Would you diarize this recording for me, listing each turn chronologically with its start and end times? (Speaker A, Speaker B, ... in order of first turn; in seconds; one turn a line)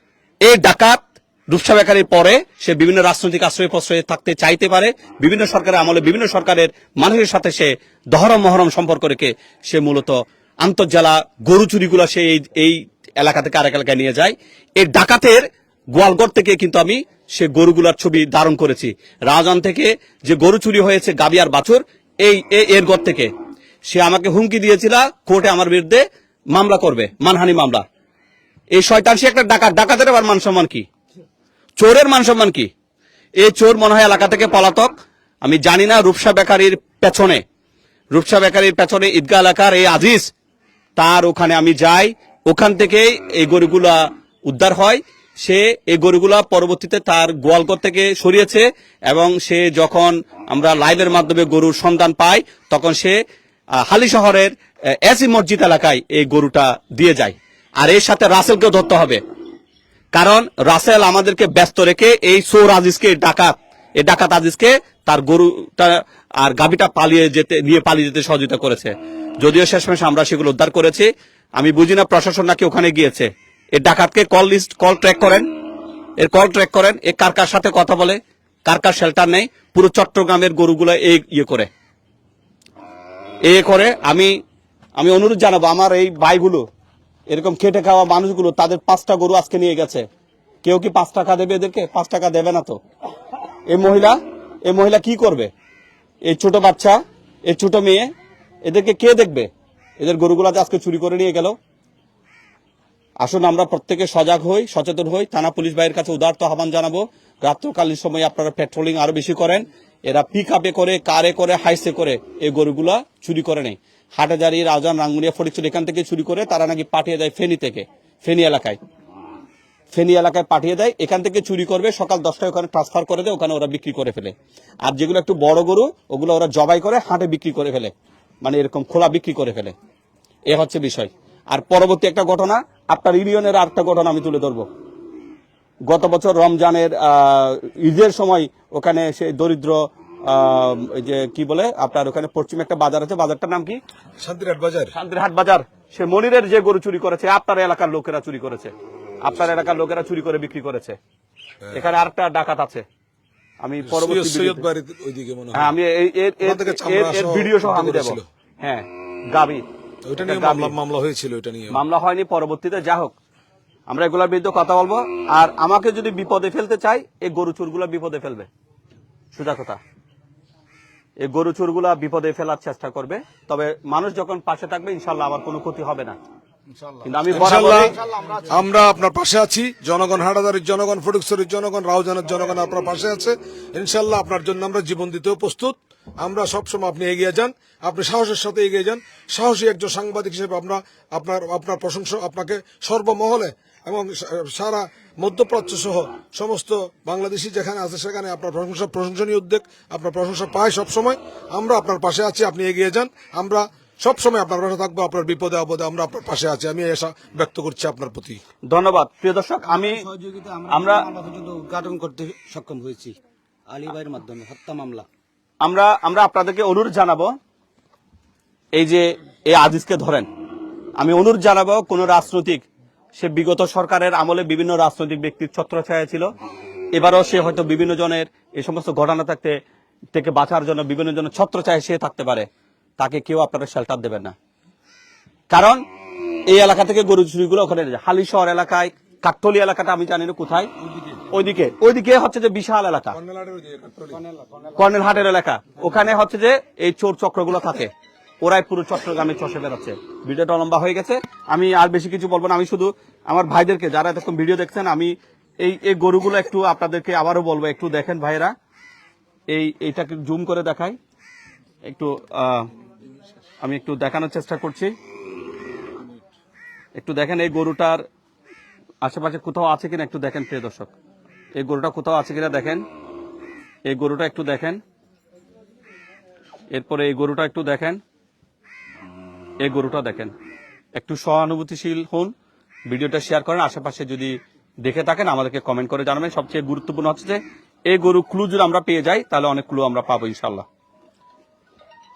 Speaker A: 0.4-23.3
Speaker A: 23.9-27.8
Speaker A: 28.7-30.9
Speaker A: 31.8-32.7
Speaker A: 33.4-37.4
Speaker A: 38.1-40.3
Speaker A: 41.0-53.2
Speaker A: 53.8-54.5
Speaker A: 55.0-59.2
Speaker A: 60.1-75.5
Speaker A: 76.2-81.7
Speaker A: 83.4-84.3
Speaker A: 85.0-86.6
Speaker A: 87.3-90.0
Speaker A: 90.6-92.8
Speaker A: 93.7-95.5
Speaker A: 96.2-98.1
Speaker A: 98.6-101.5
Speaker A: 103.2-118.8
Speaker A: 119.9-129.7
Speaker A: 130.5-134.7
Speaker A: 135.9-143.8
Speaker B: 144.2-144.9
Speaker A: 144.9-151.0
Speaker A: 151.7-152.8
Speaker A: 153.6-154.6
Speaker B: 153.8-155.7
Speaker A: 155.5-159.6
Speaker B: 156.4-158.2
Speaker B: 160.0-161.8
Speaker A: 160.2-160.7
Speaker A: 161.7-163.2
Speaker A: 163.9-168.5
Speaker A: 169.3-169.8
Speaker A: 171.2-176.2
Speaker A: 177.0-178.0
Speaker B: 177.3-208.4
Speaker A: 208.7-210.1
Speaker C: 209.7-213.1
Speaker A: 210.7-211.1
Speaker C: 213.7-215.0
Speaker A: 215.6-217.3
Speaker A: 218.7-220.3
Speaker A: 221.0-222.6
Speaker A: 223.2-226.3
Speaker A: 226.9-229.6
Speaker A: 230.1-232.5
Speaker A: 233.0-234.3
Speaker A: 235.5-235.8
Speaker A: 236.5-240.7
Speaker A: 241.3-243.2
Speaker B: 243.1-244.2
Speaker A: 244.8-258.5
Speaker A: 259.5-261.0
Speaker A: 261.8-262.7
Speaker A: 263.6-264.9
Speaker A: 266.9-268.0
Speaker A: 269.0-270.9
Speaker A: 271.6-272.8
Speaker A: 273.9-274.8
Speaker A: 276.7-278.0
Speaker A: 279.6-280.3
Speaker A: 280.9-282.3
Speaker A: 282.9-290.6